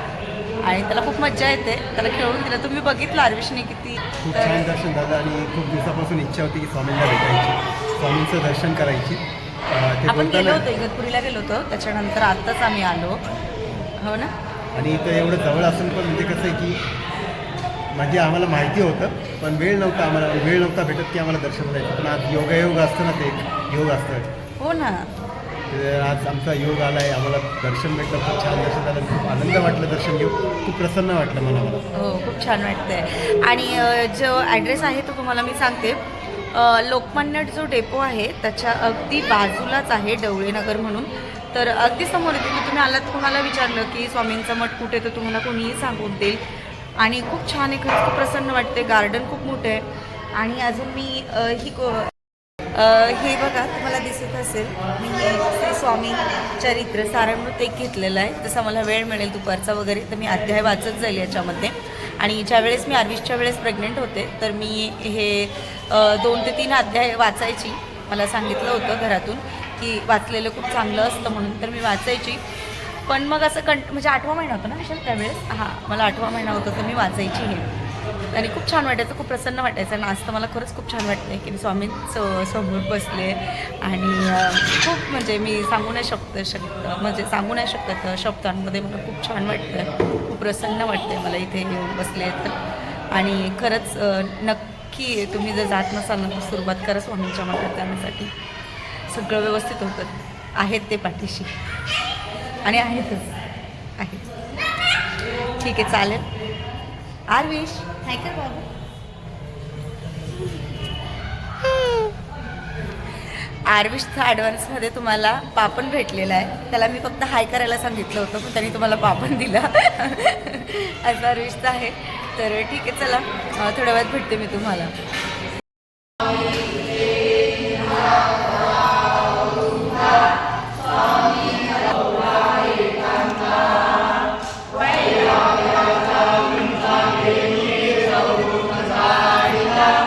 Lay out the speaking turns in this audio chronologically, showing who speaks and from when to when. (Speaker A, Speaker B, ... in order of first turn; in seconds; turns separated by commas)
Speaker A: 0.6-4.7, Speaker B: 4.2-10.7, Speaker A: 10.1-13.2, Speaker B: 13.2-13.9, Speaker A: 14.0-14.3, Speaker B: 14.7-16.8, Speaker B: 17.9-24.3, Speaker A: 24.6-25.1, Speaker B: 25.7-31.8, Speaker A: 31.9-36.0, Speaker A: 36.5-46.4, Speaker A: 47.0-52.1, Speaker A: 52.7-72.4, Speaker A: 73.0-77.7, Speaker A: 78.3-92.6, Speaker A: 93.1-98.3, Speaker A: 99.0-101.6, Speaker A: 102.6-103.3, Speaker A: 104.0-104.3, Speaker A: 105.5-106.3, Speaker A: 107.3-108.7, Speaker A: 113.1-124.9, Speaker A: 131.5-133.0, Speaker A: 136.5-139.6